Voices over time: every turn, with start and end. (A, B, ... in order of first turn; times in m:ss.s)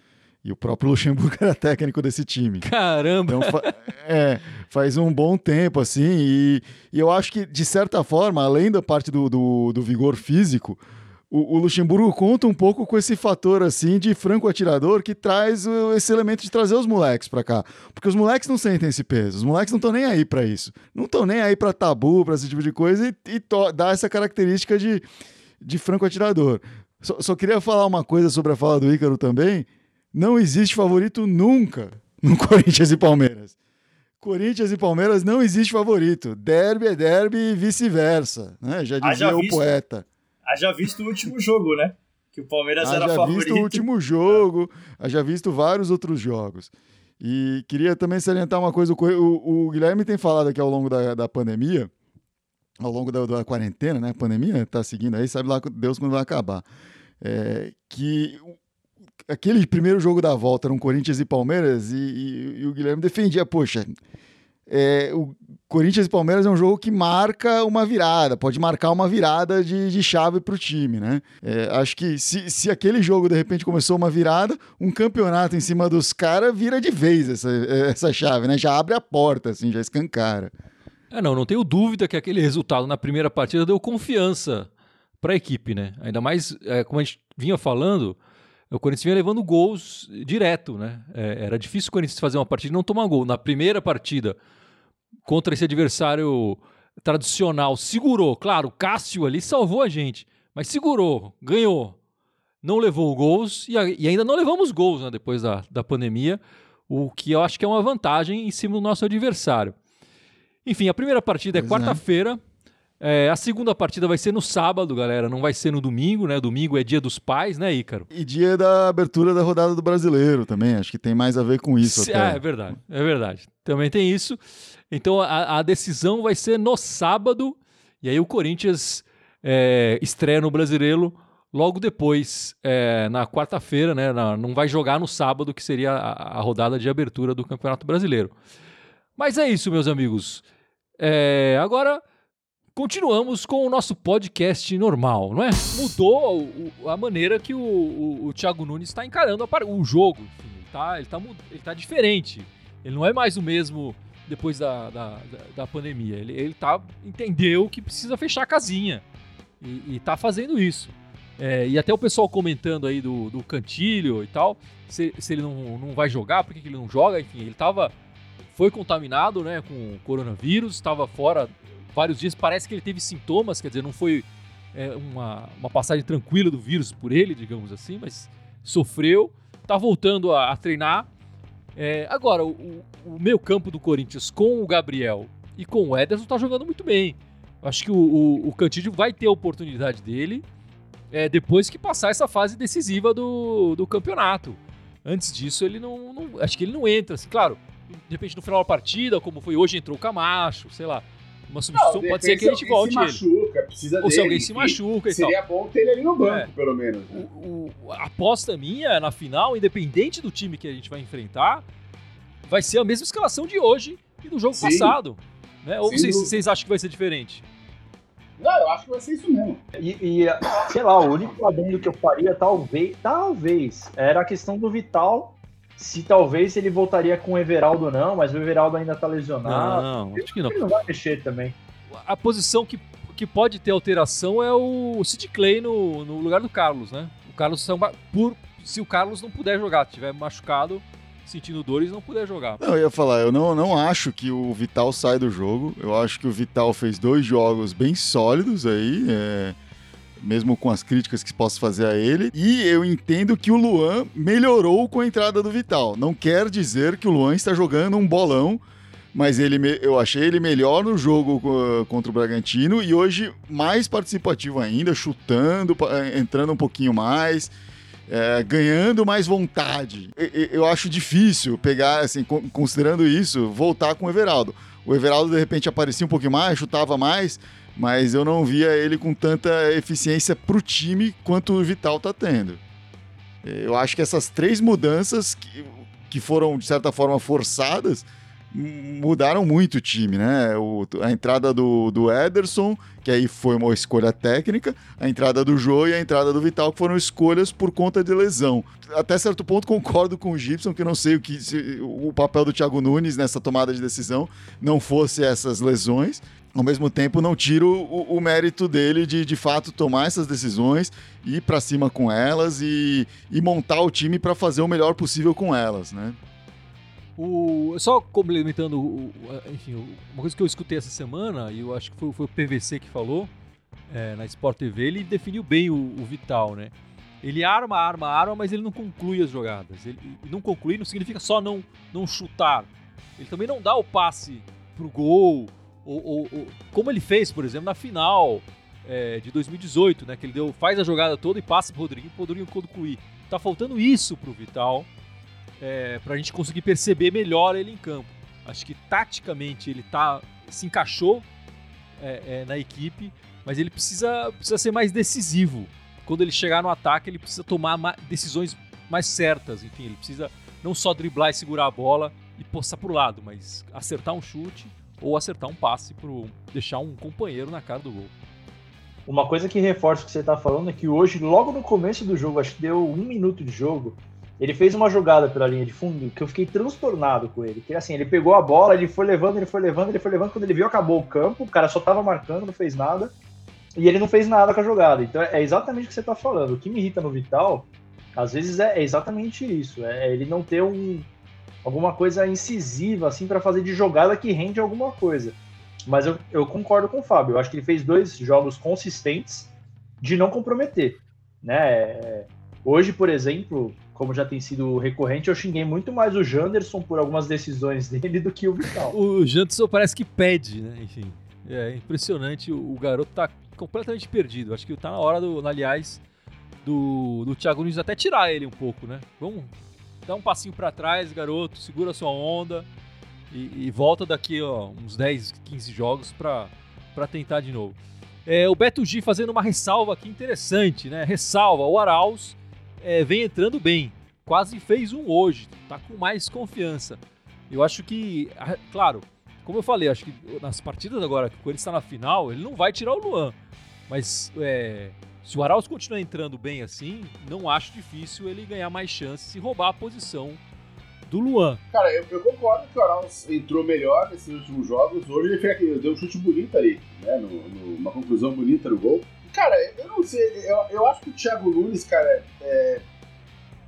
0:00.4-0:02.6 A
0:02.6-0:03.7 B
0:03.3-0:25.0 A
0:25.6-0:33.5 A
0:34.2-0:40.0 A
0:39.0-0:39.6 C
0:40.5-0:44.4 C
0:42.8-0:51.9 A
0:52.8-0:56.6 A
0:57.2-0:58.5 A
0:59.2-1:03.9 A
1:04.7-1:20.5 A
1:21.1-1:24.7 B
1:25.2-1:28.2 B
1:28.7-1:34.4 B
1:35.2-1:42.0 B
1:42.6-1:49.8 B
1:50.6-1:52.4 B
1:51.5-1:52.0 A
1:53.0-1:58.1 B
1:58.1-2:02.4 A
2:01.8-2:04.4 B
2:04.9-2:18.3 B
2:19.2-2:20.4 B
2:21.0-2:22.0 B
2:22.7-2:39.0 B
2:39.6-2:47.9 B
2:48.5-3:01.1 B
3:01.8-3:10.4 B
3:11.1-3:23.2 B
3:21.7-3:27.2 D
3:24.0-3:25.4 B
3:26.2-3:26.5 B
3:27.1-3:31.6 B
3:32.4-3:37.4 B
3:34.5-3:35.0 D
3:35.8-3:36.3 D
3:38.4-3:39.6 D
3:39.8-3:51.6 E
3:49.4-3:50.6 B
3:51.9-4:02.6 B
4:02.6-4:09.6 A
4:10.2-4:18.6 A
4:19.1-4:27.5 A
4:28.1-4:42.6 A
4:43.4-5:16.2 A
5:17.2-5:23.3 B
5:23.9-5:44.9 B
5:45.6-5:51.2 B
5:52.0-6:08.1 B
6:09.1-6:23.1 E
6:23.8-6:31.1 E
6:31.6-6:39.5 E
6:40.0-6:49.0 E
6:48.9-6:56.0 B
6:56.6-6:59.5 B
7:00.0-7:02.7 B
7:03.3-7:23.3 B
7:23.9-7:30.4 B
7:31.1-7:31.6 B
7:31.7-7:42.8 D